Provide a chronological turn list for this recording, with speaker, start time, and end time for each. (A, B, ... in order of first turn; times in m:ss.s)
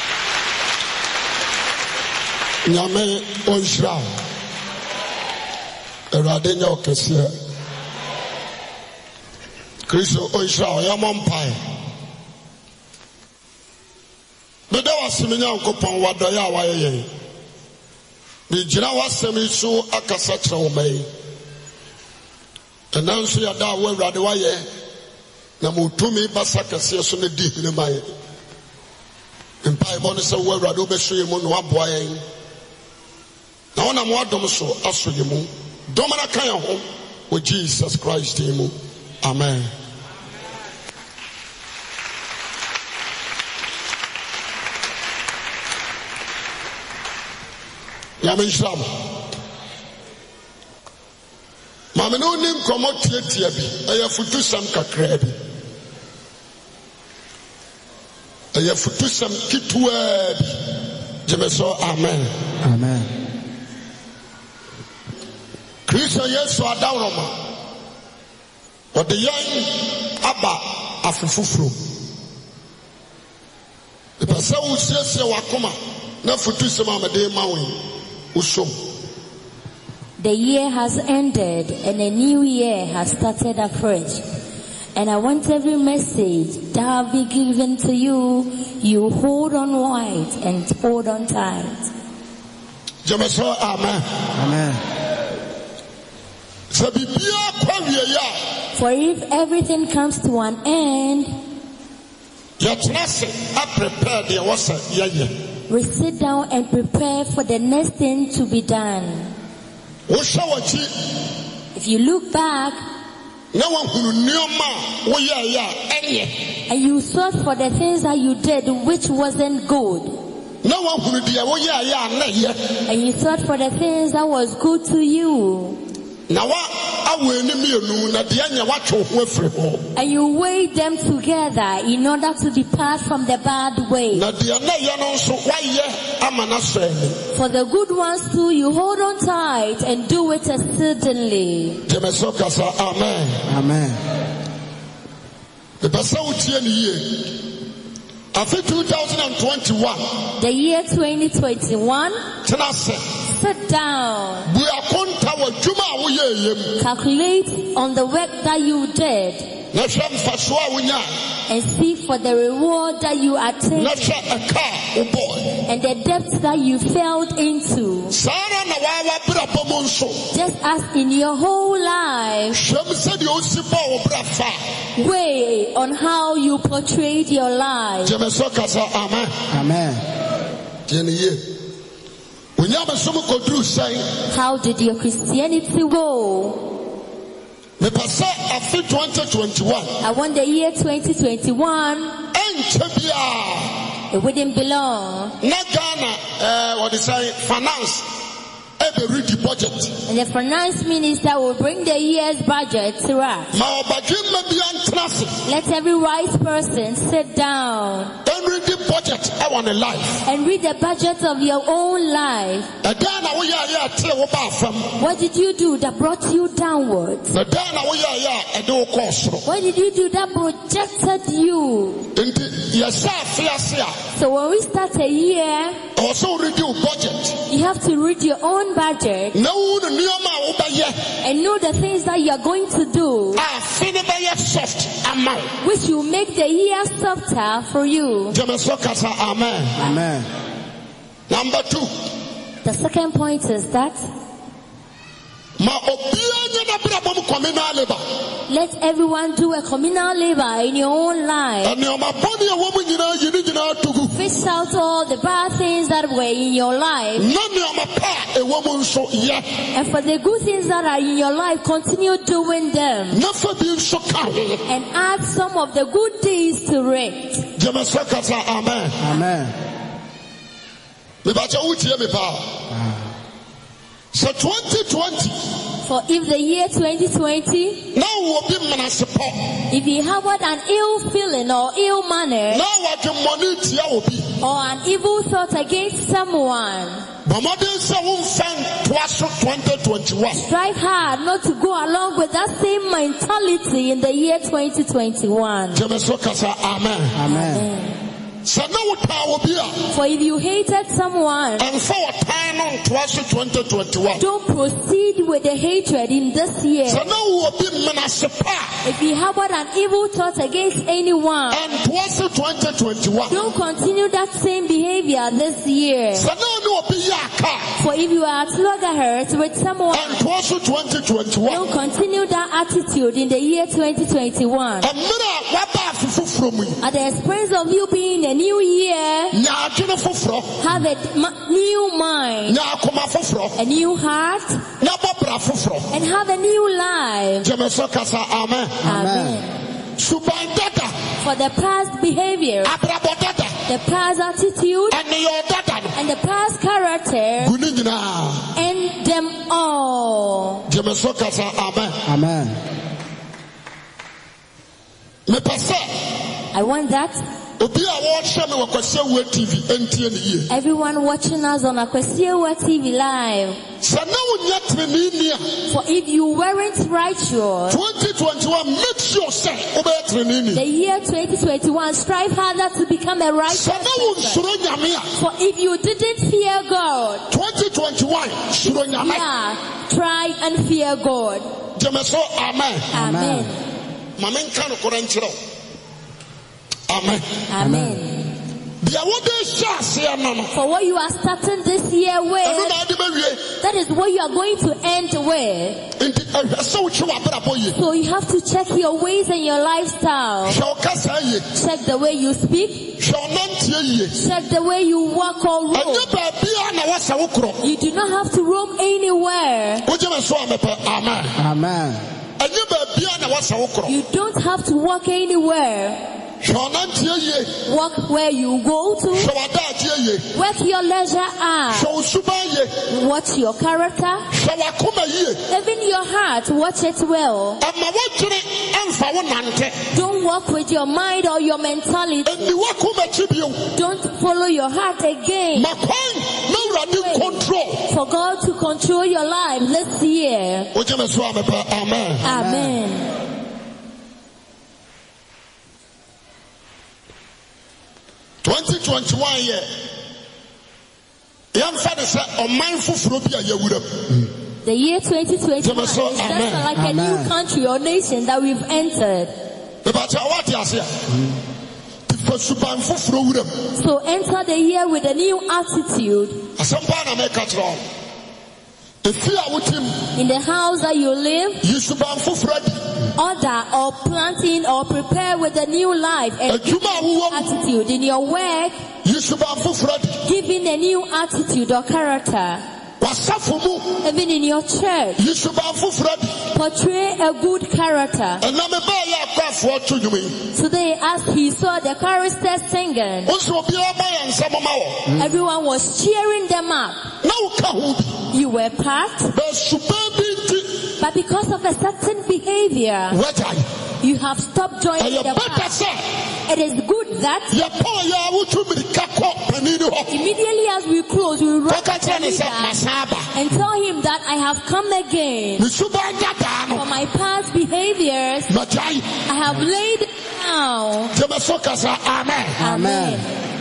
0:02.6-0:04.1 A
0:06.1-0:07.3 A
0:09.9-0:11.6 A
0:14.7-0:17.1 A
0:18.5-0:21.1 A
0:22.9-0:24.6 A
0:25.6-0:28.1 A
0:29.6-0:32.2 A
0:33.7-0:39.7 A
0:48.2-0:49.0 A
0:51.9-0:55.4 A
0:58.5-1:00.7 A
1:01.2-1:02.3 A
1:02.6-1:03.1 B
1:05.9-1:07.3 A
1:08.9-1:11.8 A
1:14.2-1:17.8 A
1:18.3-1:18.7 A
1:20.2-1:24.2 C
1:24.9-1:31.9 C
1:33.0-1:34.0 A
1:34.3-1:34.8 B
1:36.7-1:38.4 A
1:38.8-1:41.4 C
1:42.6-1:45.3 A
1:45.7-1:49.3 C
1:50.1-1:50.9 A
1:51.7-1:52.8 C
1:53.5-1:56.3 A
1:56.7-2:00.2 C
2:00.6-2:02.6 A
2:02.9-2:05.8 C
2:06.3-2:09.8 A
2:09.9-2:14.2 C
2:14.1-2:17.2 A
2:17.3-2:21.8 C
2:21.9-2:23.4 A
2:23.5-2:24.0 B
2:25.8-2:27.4 A
2:28.3-2:30.2 A
2:30.4-2:32.2 C
2:32.4-2:33.0 A
2:33.3-2:34.5 C
2:34.5-2:36.7 A
2:36.8-2:39.5 C
2:39.7-2:41.1 A
2:41.5-2:44.1 C
2:43.7-2:45.6 A
2:45.6-2:48.1 C
2:48.1-2:50.2 A
2:50.3-2:52.6 C
2:52.5-2:54.6 A
2:55.0-2:58.1 C
2:58.0-2:59.3 A
2:59.5-3:00.0 B
3:00.9-3:01.4 A
3:02.6-3:04.1 A
3:04.3-3:06.6 C
3:07.8-3:10.0 A
3:10.0-3:12.2 C
3:12.3-3:13.8 A
3:14.1-3:15.4 C
3:15.4-3:18.2 A
3:18.8-3:19.9 A
3:20.1-3:23.5 C
3:23.5-3:25.4 A
3:25.4-3:28.1 C
3:28.2-3:30.2 A
3:30.2-3:32.7 C
3:32.8-3:35.0 A
3:35.0-3:37.4 C
3:37.3-3:39.4 A
3:39.4-3:42.1 C
3:42.1-3:43.9 A
3:44.1-3:45.8 C
3:46.0-3:47.4 A
3:47.5-3:49.4 C
3:49.3-3:51.0 A
3:51.2-3:53.4 C
3:53.3-3:55.5 A
3:55.6-3:58.4 C
3:58.3-3:59.8 A
3:59.8-4:00.3 B
4:01.3-4:01.9 A
4:02.6-4:04.0 C
4:05.6-4:08.0 A
4:08.5-4:11.7 C
4:11.6-4:14.2 A
4:14.1-4:17.3 C
4:17.2-4:19.4 A
4:19.7-4:23.2 C
4:23.1-4:24.6 A
4:24.7-4:27.4 C
4:27.6-4:29.0 A
4:29.0-4:29.5 B
4:31.2-4:32.5 A
4:34.1-4:35.4 A
4:35.8-4:37.9 C
4:37.9-4:39.5 A
4:39.7-4:42.6 C
4:42.5-4:44.4 A
4:44.4-4:47.0 C
4:47.2-4:50.4 A
4:50.3-4:55.8 C
4:55.7-4:57.2 A
4:57.1-4:57.6 B
4:57.2-4:58.0 C
4:58.4-4:59.8 A
4:59.9-5:01.7 C
5:01.6-5:04.2 A
5:04.2-5:07.0 C
5:06.9-5:08.8 A
5:08.8-5:11.6 C
5:11.5-5:13.4 A
5:13.3-5:16.3 C
5:16.1-5:17.8 A
5:17.8-5:20.2 C
5:19.9-5:21.6 A
5:21.4-5:24.9 C
5:24.8-5:26.8 A
5:26.8-5:29.4 C
5:29.3-5:30.6 A
5:30.6-5:32.6 C
5:32.5-5:33.6 A
5:33.6-5:34.7 C
5:34.8-5:35.9 A
5:35.9-5:37.5 C
5:37.4-5:38.8 A
5:38.8-5:39.4 B
5:38.8-5:39.5 C
5:40.0-5:40.9 A
5:41.2-5:42.7 C
5:42.6-5:43.6 A
5:43.7-5:45.0 C
5:44.9-5:45.9 A
5:45.9-5:47.5 C
5:47.4-5:48.5 A
5:48.5-5:50.6 C
5:50.7-5:52.0 A
5:52.0-5:52.6 B
5:55.3-5:56.0 A
5:56.5-5:57.2 C
5:57.6-6:00.5 A
6:00.5-6:03.6 C
6:03.8-6:05.5 A
6:05.7-6:07.8 C
6:07.7-6:10.6 A
6:10.5-6:14.4 C
6:13.5-6:15.1 A
6:15.2-6:17.2 C
6:17.3-6:19.2 A
6:18.6-6:21.5 C
6:21.8-6:22.9 A
6:22.9-6:23.5 C
6:22.9-6:23.5 B
6:24.2-6:25.4 A
6:26.9-6:27.4 A
6:27.5-6:28.3 C
6:27.6-6:28.0 B
6:28.8-6:30.5 A
6:30.5-6:32.8 C
6:32.4-6:33.5 A
6:33.6-6:35.9 C
6:36.0-6:37.8 A
6:37.7-6:40.6 C
6:40.4-6:41.4 A
6:41.5-6:42.9 C
6:43.0-6:44.2 A
6:44.1-6:46.1 C
6:45.7-6:47.6 A
6:47.6-6:49.8 C
6:49.8-6:51.4 A
6:51.4-6:52.0 B
6:52.4-6:53.9 A
6:53.9-6:56.0 C
6:56.4-6:57.6 A
6:57.6-6:59.3 C
6:59.1-7:00.2 A
7:00.3-7:01.9 C
7:01.7-7:02.8 A
7:02.9-7:04.3 C
7:04.3-7:05.4 A
7:05.5-7:07.6 C
7:07.6-7:09.8 A
7:09.9-7:12.5 C
7:12.2-7:13.7 A
7:13.7-7:15.8 C
7:15.5-7:17.8 A
7:16.5-7:20.7 C
7:20.7-7:22.2 A
7:22.2-7:23.1 C
7:22.2-7:22.8 B
7:28.4-7:29.7 A
7:31.5-7:34.3 A
7:34.6-7:39.3 C
7:35.6-7:36.6 A
7:36.7-7:37.3 B
7:39.8-7:41.1 A
7:42.1-7:43.5 A
7:43.8-7:46.4 C
7:46.6-7:47.8 A
7:49.0-7:50.0 A
7:50.2-7:51.6 C
7:51.6-7:52.8 A
7:53.2-7:58.8 C
7:56.5-7:57.5 A
7:59.0-8:00.2 A
8:00.2-8:02.6 C
8:03.0-8:04.0 A
8:04.0-8:05.2 C
8:05.2-8:06.4 A
8:06.5-8:08.4 C
8:08.4-8:10.4 A
8:10.5-8:13.3 C
8:13.2-8:15.1 A
8:15.1-8:17.1 C
8:17.2-8:18.2 A
8:18.3-8:19.3 C
8:19.3-8:20.9 A
8:21.0-8:23.2 C
8:23.1-8:23.6 A
8:24.0-8:25.8 C
8:25.0-8:26.0 A
8:26.5-8:27.6 C
8:27.5-8:30.1 A
8:30.1-8:32.8 C
8:31.7-8:33.3 A
8:33.3-8:35.6 C
8:35.6-8:36.8 A
8:36.7-8:38.5 C
8:38.5-8:39.1 A
8:39.3-8:41.1 C
8:41.1-8:42.6 A
8:42.6-8:43.2 B
8:42.6-8:43.3 C